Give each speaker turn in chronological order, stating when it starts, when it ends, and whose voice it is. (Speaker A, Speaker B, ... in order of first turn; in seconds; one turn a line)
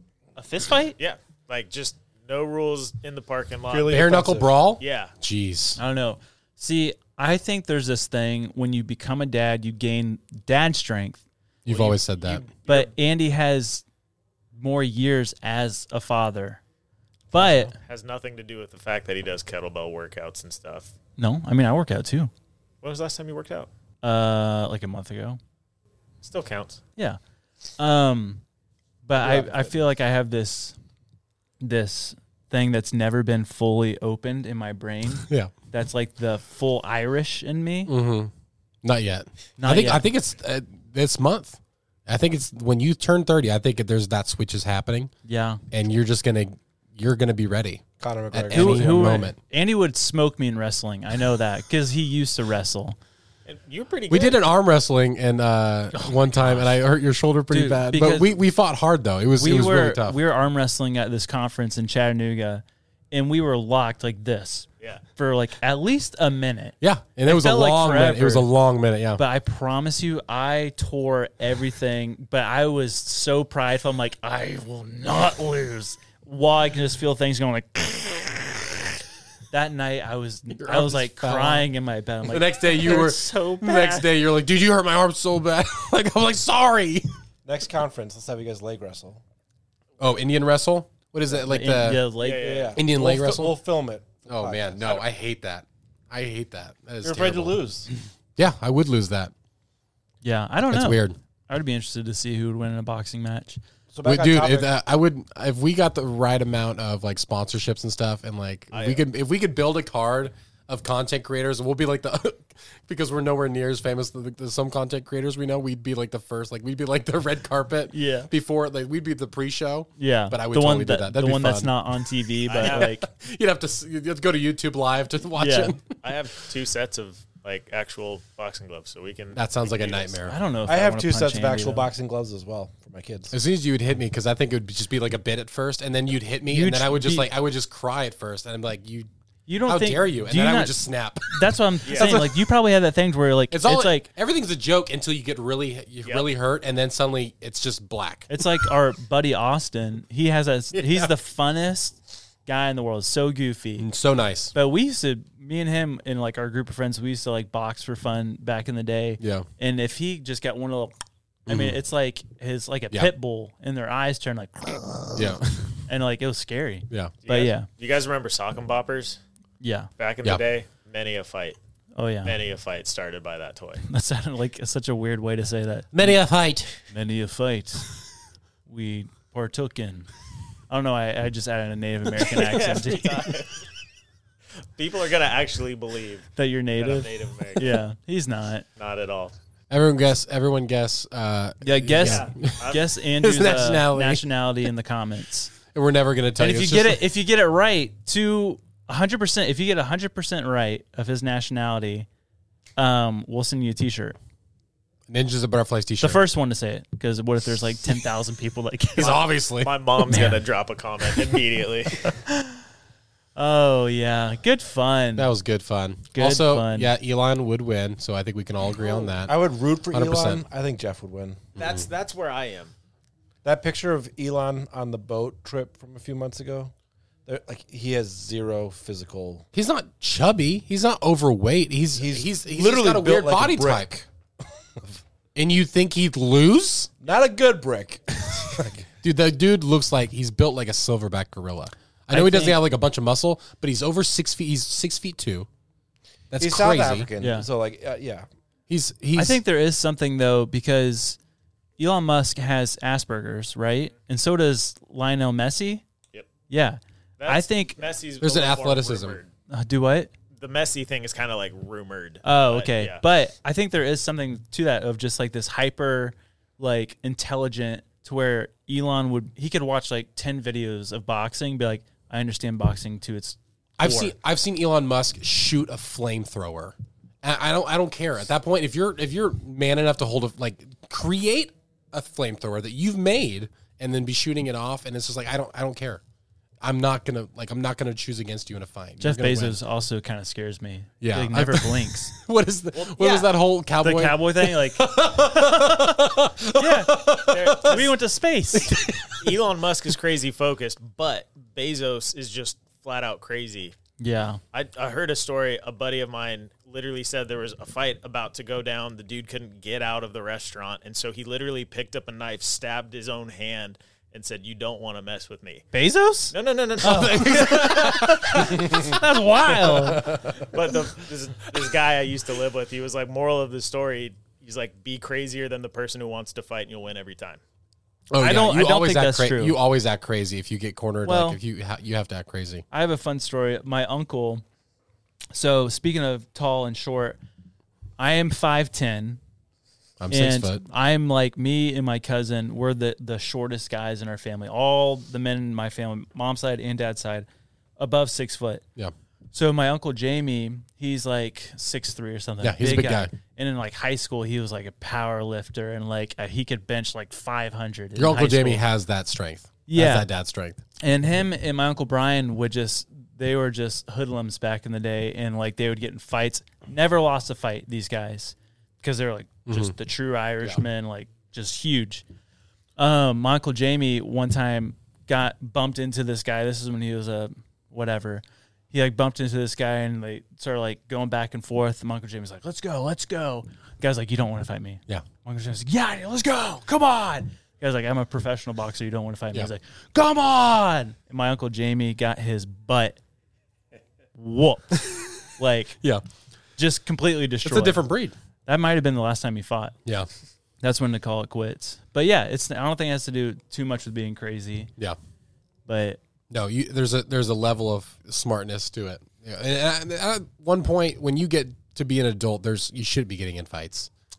Speaker A: 0.3-0.9
Speaker B: 1.0-4.0
Speaker C: 3.7-4.6
Speaker D: 3.9-5.8
Speaker B: 4.8-5.1
Speaker A: 5.8-11.2
Speaker D: 11.6-12.4
Speaker B: 11.7-12.9
Speaker A: 12.6-13.8
Speaker A: 14.5-16.6
Speaker A: 17.3-17.7
Speaker B: 17.7-20.9
Speaker A: 21.2-22.3
Speaker B: 22.8-23.7
Speaker A: 24.0-25.4
Speaker B: 26.2-26.8
Speaker A: 27.8-28.4
Speaker A: 29.0-30.8
Speaker C: 29.2-29.7
Speaker A: 31.6-37.9
Speaker D: 35.2-35.5
Speaker D: 37.9-38.3
Speaker D: 38.8-45.1
Speaker A: 39.6-40.0
Speaker A: 45.2-45.6
Speaker D: 45.7-49.4
Speaker C: 48.0-49.2
Speaker A: 48.5-53.0
Speaker B: 53.5-54.4
Speaker D: 54.1-60.2
Speaker A: 56.0-56.7
Speaker A: 57.5-58.3
Speaker A: 59.4-66.7
Speaker D: 66.8-69.2
Speaker A: 67.2-68.5
Speaker A: 69.2-78.8
Speaker A: 79.5-84.1
Speaker D: 80.5-81.7
Speaker D: 82.2-87.1
Speaker C: 87.5-89.2
Speaker D: 90.0-92.1
Speaker A: 91.4-92.6
Speaker B: 92.2-92.8
Speaker C: 92.4-95.0
Speaker D: 92.7-93.5
Speaker D: 94.2-97.6
Speaker C: 97.0-97.9
Speaker D: 98.4-99.3
Speaker A: 100.2-103.6
Speaker D: 100.7-101.2
Speaker C: 103.9-104.7
Speaker D: 104.0-121.7
Speaker B: 108.7-109.0
Speaker A: 117.9-118.3
Speaker A: 120.0-123.0
Speaker B: 122.5-122.9
Speaker D: 122.5-126.0
Speaker A: 125.4-125.8
Speaker B: 126.0-130.2
Speaker D: 129.3-130.3
Speaker A: 130.2-131.9
Speaker C: 130.7-133.3
Speaker D: 133.3-139.1
Speaker A: 136.5-137.3
Speaker A: 139.5-144.1
Speaker D: 139.7-142.4
Speaker B: 141.8-142.2
Speaker D: 143.5-148.4
Speaker A: 148.3-153.9
Speaker D: 150.7-151.1
Speaker D: 153.8-154.5
Speaker A: 154.5-160.9
Speaker D: 159.2-159.5
Speaker D: 161.5-161.8
Speaker A: 161.5-165.3
Speaker D: 165.2-165.7
Speaker A: 165.9-167.7
Speaker B: 167.2-169.2
Speaker A: 169.6-169.9
Speaker B: 170.0-171.6
Speaker A: 171.9-172.3
Speaker B: 172.2-173.8
Speaker A: 173.8-176.2
Speaker D: 175.9-176.8
Speaker A: 176.9-177.9
Speaker A: 178.7-180.1
Speaker A: 180.7-183.3
Speaker B: 182.3-183.6
Speaker B: 184.8-187.8
Speaker A: 186.3-188.7
Speaker B: 188.8-189.3
Speaker D: 189.7-194.2
Speaker A: 191.6-195.5
Speaker B: 192.0-192.8
Speaker D: 195.7-197.0
Speaker A: 196.4-202.1
Speaker A: 202.8-204.2
Speaker D: 205.1-206.2
Speaker A: 206.0-209.2
Speaker D: 209.0-209.8
Speaker B: 209.0-212.1
Speaker A: 210.1-210.4
Speaker A: 212.3-212.5
Speaker A: 213.3-215.3
Speaker D: 215.2-219.4
Speaker A: 216.1-216.9
Speaker C: 218.8-221.4
Speaker D: 219.9-220.4
Speaker B: 221.6-222.7
Speaker D: 221.6-221.8
Speaker C: 223.4-226.7
Speaker C: 227.2-229.4
Speaker D: 229.5-233.9
Speaker C: 231.9-234.1
Speaker D: 235.3-236.9
Speaker C: 237.0-238.9
Speaker D: 239.0-245.5
Speaker A: 242.1-242.6
Speaker D: 246.3-247.1
Speaker C: 246.4-248.3
Speaker A: 247.2-247.4
Speaker D: 248.7-249.4
Speaker A: 249.2-251.2
Speaker A: 251.8-255.8
Speaker A: 256.5-257.8
Speaker B: 257.2-259.3
Speaker D: 258.2-259.2
Speaker A: 259.5-260.1
Speaker B: 260.4-263.0
Speaker A: 262.2-274.1
Speaker D: 273.8-286.0
Speaker D: 286.6-289.6
Speaker A: 289.0-292.1
Speaker D: 291.0-297.8
Speaker B: 292.7-293.3
Speaker A: 293.8-296.0
Speaker A: 296.5-298.7
Speaker B: 297.3-297.9
Speaker D: 298.5-299.3
Speaker B: 299.2-303.7
Speaker A: 304.0-304.4
Speaker B: 304.5-315.6
Speaker A: 315.7-320.2
Speaker B: 316.3-318.1
Speaker D: 316.8-320.5
Speaker B: 320.1-327.4
Speaker D: 328.1-332.6
Speaker A: 328.2-329.6
Speaker A: 331.0-331.4
Speaker A: 332.7-334.4
Speaker A: 335.3-337.2
Speaker A: 338.0-339.2
Speaker D: 340.0-340.6
Speaker A: 340.1-347.3
Speaker A: 347.8-348.6
Speaker A: 349.3-358.6
Speaker D: 352.4-353.1
Speaker D: 357.9-360.6
Speaker A: 359.7-360.1
Speaker A: 360.8-372.0
Speaker D: 369.5-369.7
Speaker A: 372.8-393.0
Speaker A: 394.1-395.7
Speaker A: 396.6-397.9
Speaker D: 397.4-398.1
Speaker A: 398.4-399.7
Speaker A: 400.6-404.7
Speaker A: 405.7-406.0
Speaker D: 406.3-413.9